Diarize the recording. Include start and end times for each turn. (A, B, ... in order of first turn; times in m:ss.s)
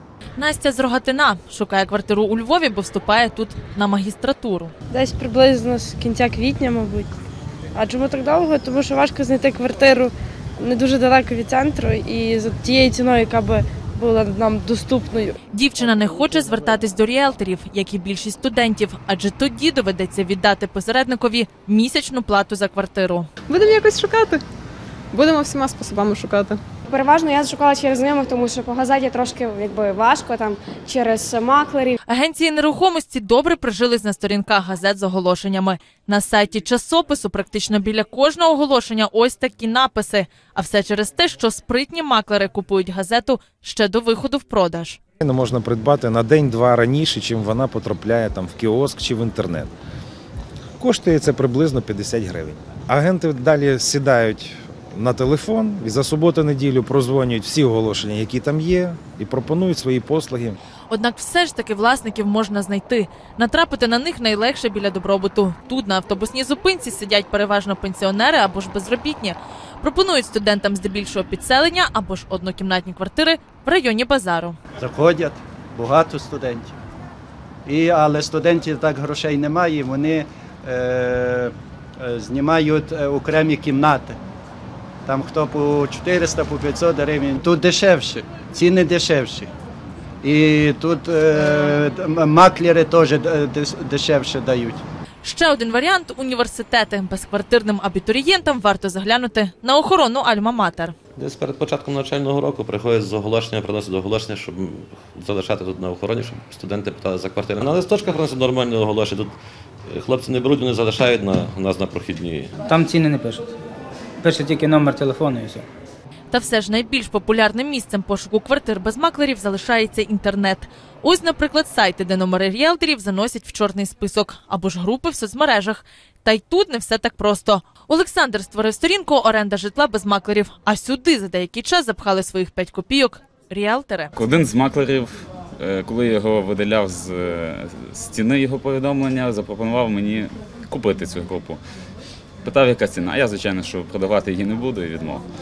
0:00.4-0:04.7 A
0:04.9-0:07.1 B
0:07.8-0:15.4 B
0:15.5-0:23.3 A
0:23.5-0:24.4 C
0:25.1-0:26.6 C
0:26.9-0:32.0 D
0:32.1-0:45.0 A
0:45.2-0:49.7 E
0:50.8-1:00.6 E
1:00.9-1:14.6 A
1:14.8-1:16.8 F
1:17.7-1:24.2 F
1:25.1-1:29.5 F
1:30.2-1:34.8 F
1:35.2-1:41.0 A
1:41.2-1:49.3 G
1:49.9-1:52.5 G
1:52.7-1:53.5 H
1:54.2-1:55.7 H
1:56.3-2:14.2 A
2:14.2-2:21.6 I
2:22.4-2:25.2 I